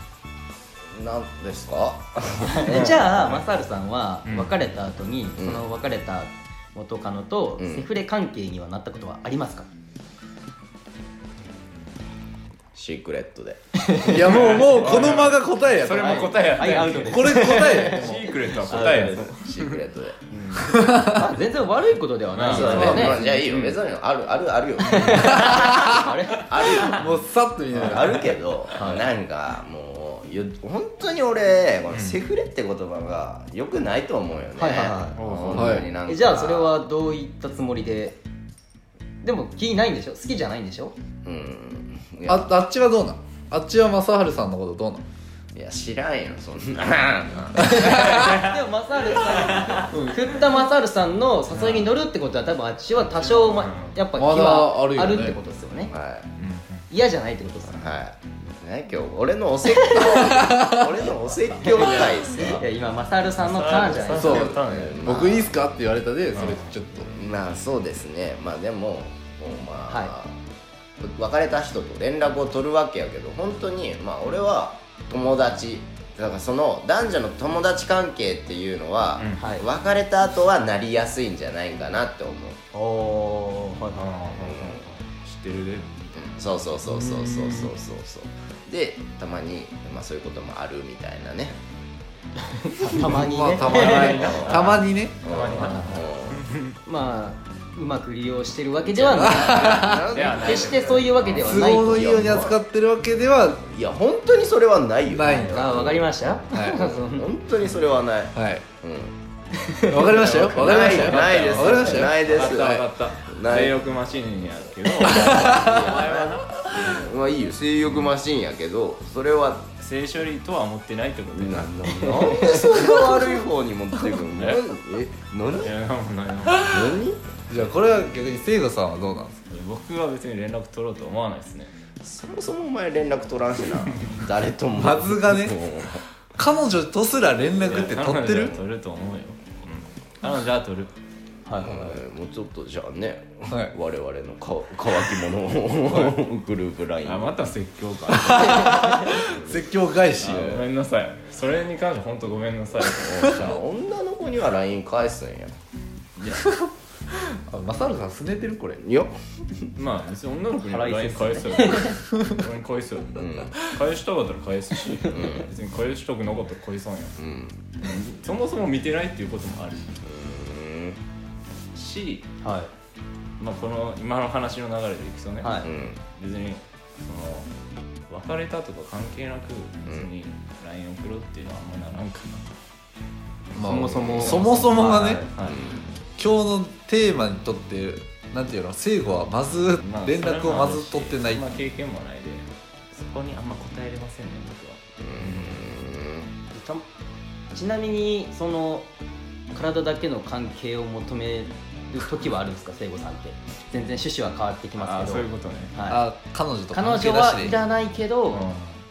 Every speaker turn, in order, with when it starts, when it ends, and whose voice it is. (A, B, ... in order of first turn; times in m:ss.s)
0:00.9-0:03.0 A
0:02.4-0:09.7 B
0:02.7-0:03.4 C
0:04.2-0:04.5 C
0:05.4-0:05.6 A
0:07.6-0:07.9 A
0:12.7-0:13.6 A
0:13.8-0:15.2 B
0:14.0-0:16.4 D
0:14.1-0:19.8 C
0:15.9-0:19.3 B
0:17.0-0:18.3 D
0:18.6-0:20.2 A
0:20.3-0:20.6 C
0:20.4-0:23.2 B
0:20.7-0:21.3 D
0:22.3-0:23.8 C
0:22.5-0:27.2 A
0:22.7-0:23.3 D
0:24.9-0:27.1 B
0:25.2-0:28.4 D
0:27.8-0:36.8 A
0:28.7-0:29.0 B
0:31.9-0:32.2 C
0:34.5-0:35.2 B
0:35.1-0:35.8 C
0:35.5-0:35.9 D
0:36.0-0:38.2 B
0:39.2-0:40.9 B
0:41.2-0:42.5 A
0:42.3-0:45.0 D
0:45.5-0:48.4 A
0:47.6-0:48.4 D
0:47.8-0:55.9 B
0:48.1-0:48.5 C
0:49.9-0:50.2 D
0:51.5-0:51.9 C
0:53.0-0:54.0 C
0:54.2-0:55.4 D
0:55.9-0:56.3 A
0:56.4-0:56.8 C
0:56.9-0:57.8 B
0:57.7-1:02.7 A
0:59.7-1:04.7 B
1:00.3-1:00.8 D
1:01.7-1:02.6 C
1:03.4-1:05.1 C
1:04.1-1:05.5 A
1:04.1-1:07.1 D
1:06.3-1:06.7 C
1:07.1-1:10.4 A
1:09.9-1:10.1 B
1:11.0-1:22.6 A
1:19.4-1:19.6 B
1:22.7-1:24.8 B
1:24.0-1:25.9 C
1:24.4-1:24.9 A
1:26.1-1:31.6 A
1:26.8-1:27.7 C
1:32.7-1:34.3 B
1:32.8-1:35.2 D
1:33.6-1:36.7 C
1:34.0-1:34.7 A
1:35.2-1:36.5 A
1:35.5-1:36.0 B
1:36.8-1:42.1 B
1:38.9-1:42.6 A
1:39.2-1:40.0 D
1:40.0-1:41.0 C
1:41.4-1:43.7 D
1:43.7-1:49.2 A
1:45.1-1:45.7 D
1:45.2-1:47.3 B
1:46.5-1:46.9 D
1:48.3-1:48.6 D
1:49.6-1:52.0 B
1:49.9-1:52.9 D
1:50.4-1:53.8 A
1:50.6-1:57.0 C
1:55.0-1:59.7 A
1:55.0-1:55.8 D
1:59.8-2:02.8 C
2:01.3-2:05.7 A
2:04.2-2:04.6 C
2:05.5-2:06.9 C
2:06.4-2:06.9 D
2:06.6-2:07.2 A
2:07.5-2:09.4 D
2:09.5-2:11.7 C
2:12.0-2:16.0 A
2:14.7-2:15.6 D
2:16.3-2:18.6 D
2:17.6-2:18.6 A
2:17.6-2:20.9 C
2:21.4-2:22.0 B
2:21.5-2:27.3 A
2:25.9-2:26.2 C
2:27.0-2:29.5 C
2:28.1-2:30.6 D
2:30.2-2:33.6 C
2:30.2-2:30.6 A
2:32.9-2:35.6 A
2:33.2-2:33.5 D
2:36.4-2:36.7 D
2:37.4-2:38.8 D
2:38.8-2:39.7 A
2:39.8-2:47.2 C
2:40.6-2:41.9 B
2:43.2-2:43.6 A
2:45.1-2:45.5 A
2:47.2-2:47.6 A
2:47.8-2:49.9 C
2:50.0-2:51.0 A
2:51.7-2:52.3 C
2:52.4-2:52.7 B
2:53.4-2:57.5 C
2:55.4-2:55.7 B
2:55.6-2:56.0 A
2:58.1-3:02.6 C
2:59.8-3:00.1 A
3:03.5-3:05.3 D
3:03.6-3:05.3 B
3:03.9-3:04.4 A
3:04.4-3:05.6 C
3:05.4-3:05.9 A
3:06.2-3:11.5 D
3:09.8-3:15.7 C
3:15.0-3:16.3 A
3:16.5-3:16.8 B
3:17.5-3:18.9 B
3:19.5-3:26.1 B
3:24.8-3:25.7 C
3:25.8-3:27.6 D
3:26.7-3:28.5 B
3:28.3-3:28.8 C